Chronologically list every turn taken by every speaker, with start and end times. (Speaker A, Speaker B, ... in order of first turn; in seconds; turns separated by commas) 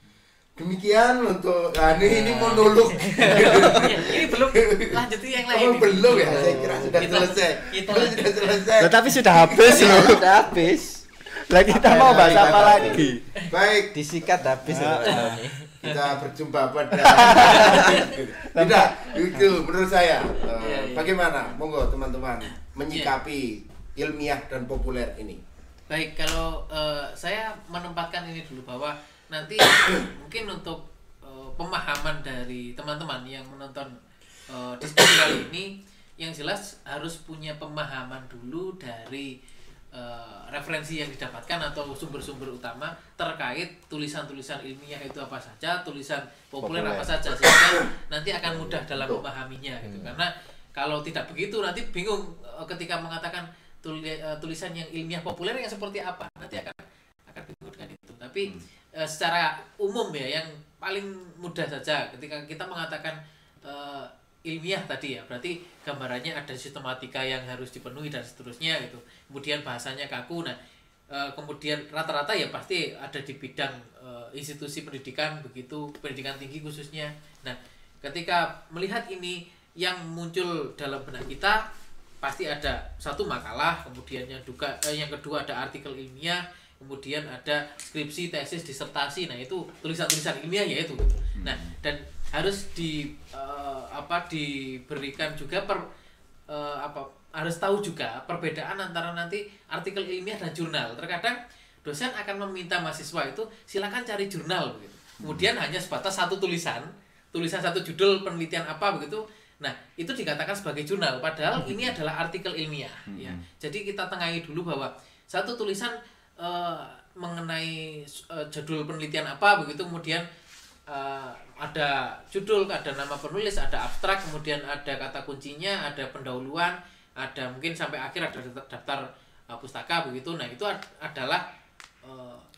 Speaker A: 0.6-10.2, Speaker B: 1.9-8.7, Speaker C: 3.1-4.1, Speaker C: 6.1-7.3, Speaker D: 8.8-10.3, Speaker C: 9.7-11.0, Speaker D: 11.3-13.3, Speaker C: 11.7-13.1, Speaker A: 11.8-14.0, Speaker C: 13.9-15.7, Speaker D: 14.6-15.5, Speaker A: 15.8-25.4, Speaker B: 15.8-16.1, Speaker D: 17.0-17.9, Speaker B: 17.4-18.1, Speaker D: 18.5-19.5, Speaker B: 20.6-21.2, Speaker B: 25.9-39.3, Speaker B: 39.9-70.5, Speaker A: 46.6-47.8, Speaker A: 48.4-49.2, Speaker C: 49.8-50.2, Speaker B: 71.1-81.6, Speaker B: 82.2-95.8, Speaker D: 91.4-91.8, Speaker B: 96.5-120.2, Speaker D: 105.2-105.5, Speaker D: 111.6-111.9, Speaker D: 113.1-113.4, Speaker B: 120.9-131.4, Speaker B: 132.0-132.4